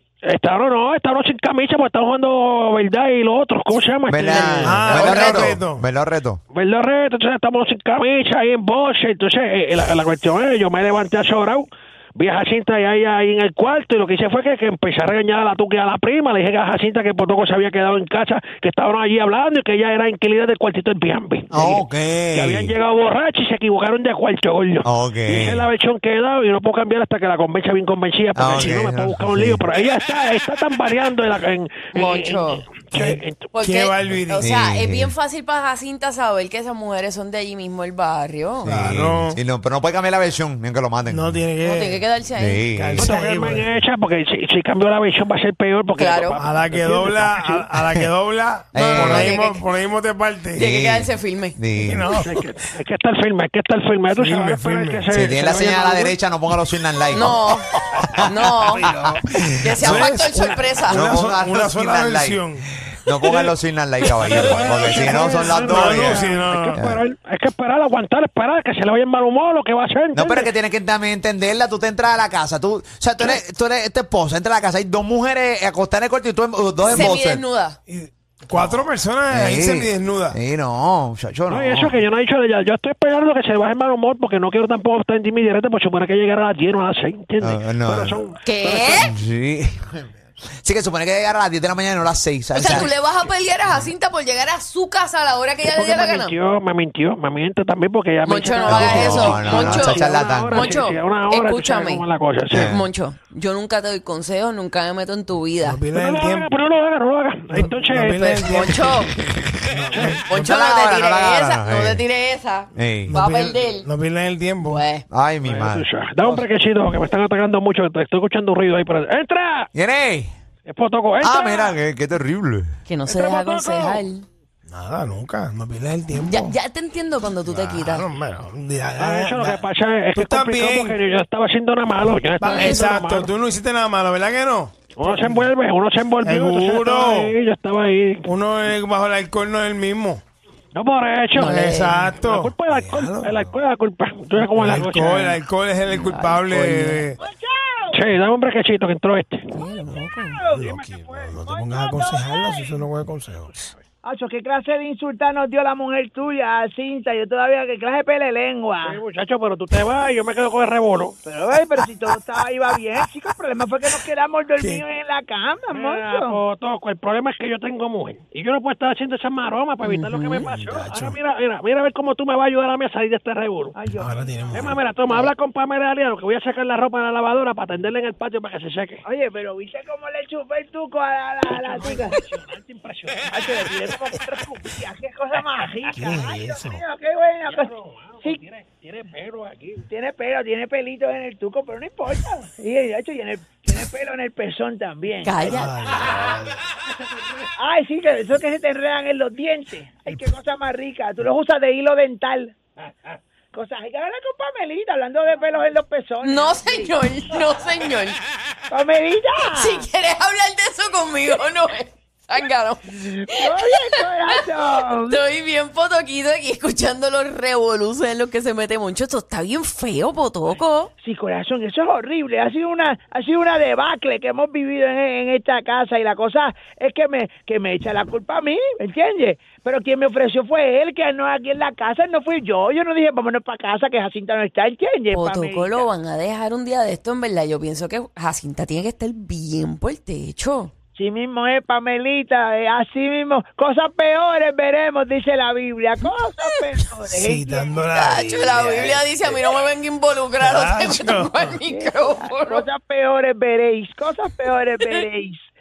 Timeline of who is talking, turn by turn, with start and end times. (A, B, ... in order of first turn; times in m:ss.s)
0:00.2-0:05.3 A
0:04.1-0:06.4 B
0:04.6-0:05.8 C
0:05.0-0:05.5 D
0:06.5-0:33.5 A
0:21.5-0:22.7 B
0:24.8-0:25.7 B
0:28.3-0:29.6 B
0:31.9-0:32.6 D
0:32.9-0:34.4 C
0:33.5-0:38.7 D
0:34.4-0:35.1 B
0:38.6-0:39.4 C
0:38.6-0:41.4 B
0:41.1-0:42.1 C
0:41.6-0:42.6 D
0:42.3-0:43.1 B
0:42.7-0:43.7 C
0:43.0-0:48.1 A
0:45.9-0:46.4 D
0:46.4-0:50.6 C
0:48.7-0:49.4 B
0:48.7-0:49.6 D
0:50.5-0:51.6 D
0:50.6-0:52.2 B
0:51.8-0:52.6 C
0:52.2-0:56.2 A
0:54.2-0:55.2 C
0:55.1-0:57.4 B
0:57.1-0:57.7 D
0:58.0-1:00.0 B
0:58.2-0:58.9 D
0:58.8-1:02.7 C
0:59.6-1:01.1 D
1:00.8-1:06.2 B
1:04.3-1:10.5 A
1:05.0-1:06.9 C
1:06.8-1:07.0 B
1:10.1-1:17.4 B
1:16.8-1:17.8 D
1:17.9-1:20.4 C
1:18.5-1:22.0 B
1:21.5-1:29.1 A
1:27.4-1:28.2 B
1:28.4-1:29.1 D
1:28.9-1:32.9 B
1:32.5-1:36.3 D
1:33.7-1:33.9 B
1:35.6-1:42.7 A
1:38.2-1:45.8 D
1:38.7-1:40.7 B
1:42.5-1:42.9 B
1:45.6-1:46.5 C
1:45.9-1:48.2 A
1:47.5-1:50.4 C
1:48.0-1:49.1 D
1:49.9-1:50.2 A
1:50.2-1:53.9 D
1:50.3-1:52.0 B
1:52.7-1:53.2 B
1:53.1-1:54.8 C
1:54.6-1:55.0 D
1:55.1-1:56.4 B
1:55.4-1:59.7 A
1:59.7-2:00.3 B
2:00.6-2:01.8 A
2:01.2-2:02.8 B
2:02.8-2:04.3 D
2:03.1-2:04.0 A
2:04.7-2:06.6 C
2:06.1-2:08.0 D
2:07.4-2:09.6 C
2:09.0-2:13.3 A
2:10.1-2:11.0 C
2:12.4-2:15.5 C
2:12.4-2:12.8 D
2:15.0-2:18.2 A
2:16.2-2:17.3 C
2:18.2-2:20.2 C
2:20.7-2:21.5 A
2:21.3-2:22.1 D
2:21.4-2:23.6 C
2:22.2-2:25.4 A
2:24.5-2:27.2 C
2:25.8-2:27.0 D
2:27.2-2:28.0 E
2:27.9-2:29.5 A
2:29.5-2:30.4 D
2:29.9-2:33.7 C
2:30.3-2:32.8 E
2:34.0-2:39.0 E
2:38.8-2:41.2 A
2:41.2-2:46.4 E
2:44.6-2:44.8 C
2:45.7-2:53.8 A
2:49.8-2:50.4 D
2:50.4-2:51.2 C
2:53.7-2:54.8 E
2:54.0-2:54.8 C
2:54.5-2:59.0 A
2:59.0-3:02.2 E
3:01.5-3:03.9 A
3:03.3-3:08.4 E
3:05.9-3:06.8 C
3:07.4-3:09.8 A
3:09.8-3:15.7 E
3:15.2-3:15.7 D
3:15.4-3:16.6 C
3:16.9-3:17.5 A
3:17.6-3:22.5 E
3:23.5-3:27.0 E
3:26.2-3:28.2 D
3:28.7-3:29.8 E
3:29.4-3:33.8 D
3:33.2-3:35.2 E
3:35.1-3:40.9 D
3:41.0-3:55.9 E
3:55.1-4:00.7 D
4:00.9-4:07.7 E
4:07.1-4:09.4 C
4:07.9-4:12.6 D
4:10.4-4:11.5 C
4:11.7-4:15.5 E